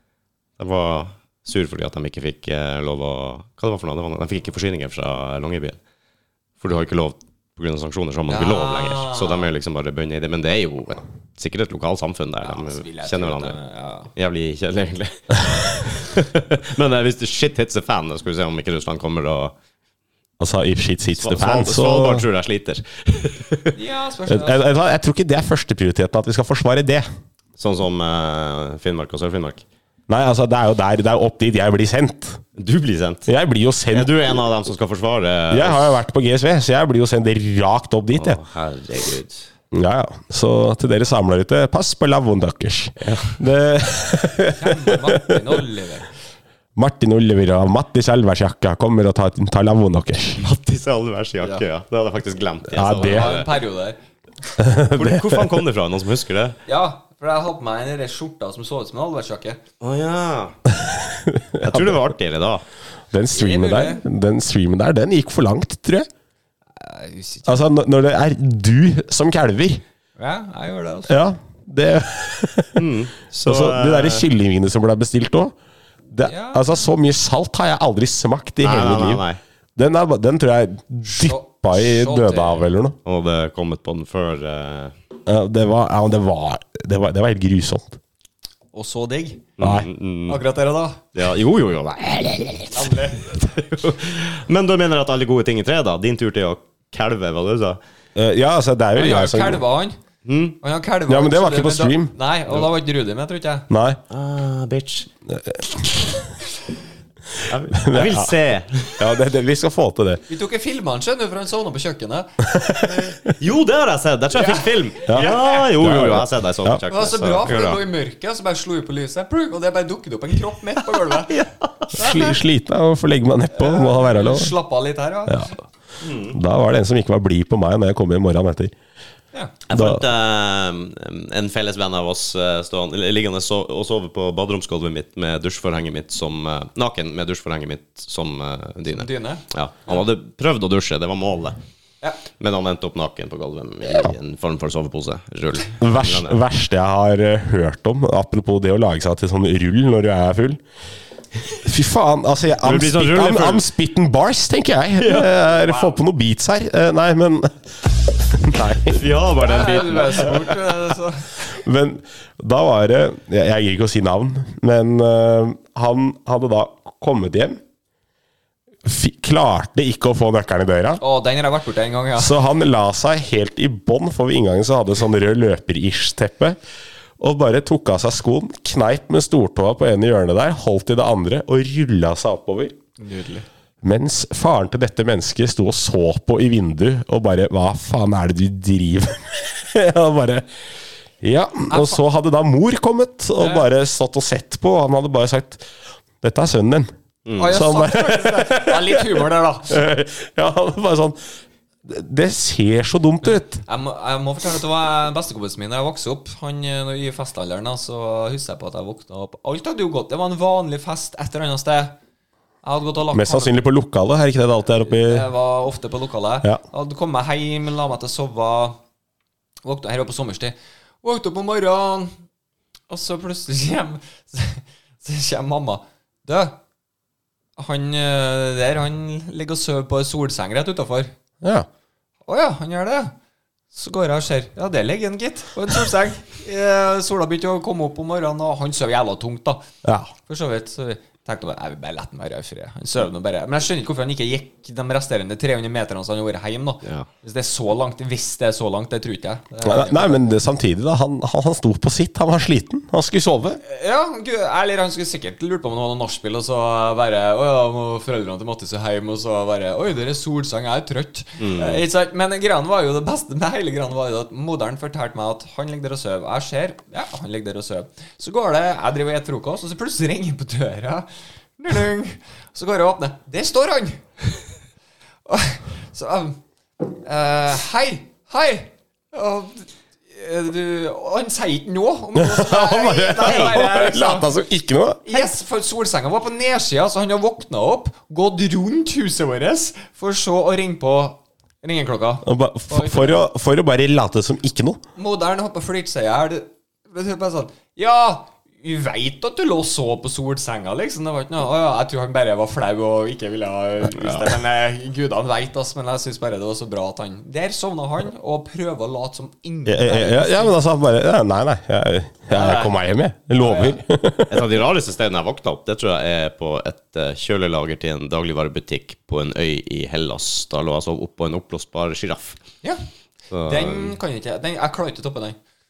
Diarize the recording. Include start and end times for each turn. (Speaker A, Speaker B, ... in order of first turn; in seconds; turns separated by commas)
Speaker A: 0.6-5.8, Speaker A: 6.6-13.6, Speaker B: 8.3-9.5, Speaker B: 12.4-14.1, Speaker A: 14.1-19.5, Speaker C: 20.4-22.2, Speaker A: 21.2-23.8, Speaker B: 23.8-24.6, Speaker C: 24.3-27.1, Speaker A: 27.6-29.6, Speaker C: 30.1-32.4, Speaker A: 32.6-33.3, Speaker C: 33.3-34.4, Speaker A: 33.9-36.0, Speaker C: 35.5-38.4, Speaker A: 38.1-39.5, Speaker C: 39.7-45.6, Speaker A: 43.0-43.4, Speaker B: 44.5-46.1, Speaker C: 46.8-50.4, Speaker A: 50.4-53.5, Speaker C: 52.7-53.3, Speaker B: 53.0-54.0, Speaker C: 54.6-55.5, Speaker A: 54.9-56.6, Speaker B: 56.7-59.6, Speaker A: 59.8-60.6, Speaker C: 60.7-62.1, Speaker A: 61.6-62.6, Speaker C: 63.1-66.1, Speaker B: 63.3-64.0, Speaker B: 66.8-67.7, Speaker C: 67.5-69.8, Speaker B: 70.2-71.2, Speaker C: 71.1-72.9, Speaker A: 72.8-74.3, Speaker C: 73.4-75.5, Speaker C: 76.1-79.2, Speaker B: 76.2-76.9, Speaker A: 78.6-79.4, Speaker C: 79.8-82.9, Speaker B: 81.0-82.7, Speaker A: 83.0-84.9, Speaker C: 85.3-88.0, Speaker B: 88.7-89.4, Speaker A: 89.6-90.4, Speaker C: 89.6-89.9, Speaker B: 90.3-91.0, Speaker A: 91.1-97.8, Speaker B: 92.7-93.3, Speaker C: 98.1-99.6, Speaker B: 98.9-100.0, Speaker A: 100.2-100.6, Speaker B: 100.6-103.7, Speaker C: 101.1-102.1, Speaker C: 103.7-104.0, Speaker A: 104.1-105.1, Speaker C: 105.3-106.3, Speaker A: 107.5-109.0, Speaker C: 107.7-108.3, Speaker C: 109.0-110.2, Speaker B: 110.3-112.3, Speaker C: 112.4-113.1, Speaker A: 112.9-117.8, Speaker B: 114.3-115.6, Speaker C: 115.1-116.8, Speaker B: 116.9-121.4, Speaker A: 121.1-122.2, Speaker C: 121.9-124.5, Speaker B: 121.9-122.4, Speaker B: 123.5-125.5, Speaker A: 126.0-126.4, Speaker C: 126.3-128.7, Speaker A: 129.7-141.6, Speaker C: 129.7-130.0, Speaker B: 138.9-140.0, Speaker A: 142.4-146.4, Speaker C: 145.8-150.6, Speaker C: 151.6-157.6, Speaker A: 152.6-153.7, Speaker A: 155.0-155.3, Speaker B: 155.6-155.9, Speaker C: 158.1-159.0, Speaker A: 158.9-160.5, Speaker B: 159.4-161.3, Speaker C: 161.5-167.6, Speaker C: 168.8-171.0, Speaker B: 171.0-172.4, Speaker C: 172.2-176.6, Speaker C: 177.2-182.8, Speaker B: 183.0-183.4, Speaker C: 183.8-190.5, Speaker C: 191.2-195.6, Speaker B: 191.7-192.0, Speaker B: 193.4-193.7, Speaker C: 196.2-196.9, Speaker A: 197.3-197.6, Speaker B: 197.4-199.8, Speaker C: 197.4-201.2, Speaker C: 201.8-203.6, Speaker B: 203.2-211.9, Speaker B: 212.6-213.6, Speaker C: 213.1-215.3, Speaker B: 214.8-218.8, Speaker B: 219.6-222.1, Speaker B: 222.9-226.6, Speaker B: 227.6-231.1, Speaker C: 231.4-231.7, Speaker B: 232.3-233.1, Speaker B: 233.7-239.6, Speaker C: 239.8-240.1, Speaker B: 240.3-250.3, Speaker C: 249.6-253.6, Speaker B: 253.6-271.1, Speaker A: 261.4-261.8, Speaker B: 271.6-274.0, Speaker B: 275.3-276.4, Speaker B: 276.9-284.3, Speaker C: 282.1-285.3, Speaker B: 285.1-293.2, Speaker C: 292.2-294.8, Speaker B: 294.9-310.6, Speaker C: 309.6-314.5, Speaker B: 312.3-312.8, Speaker B: 313.4-313.8, Speaker A: 314.3-322.4, Speaker A: 323.3-323.9, Speaker B: 323.4-325.4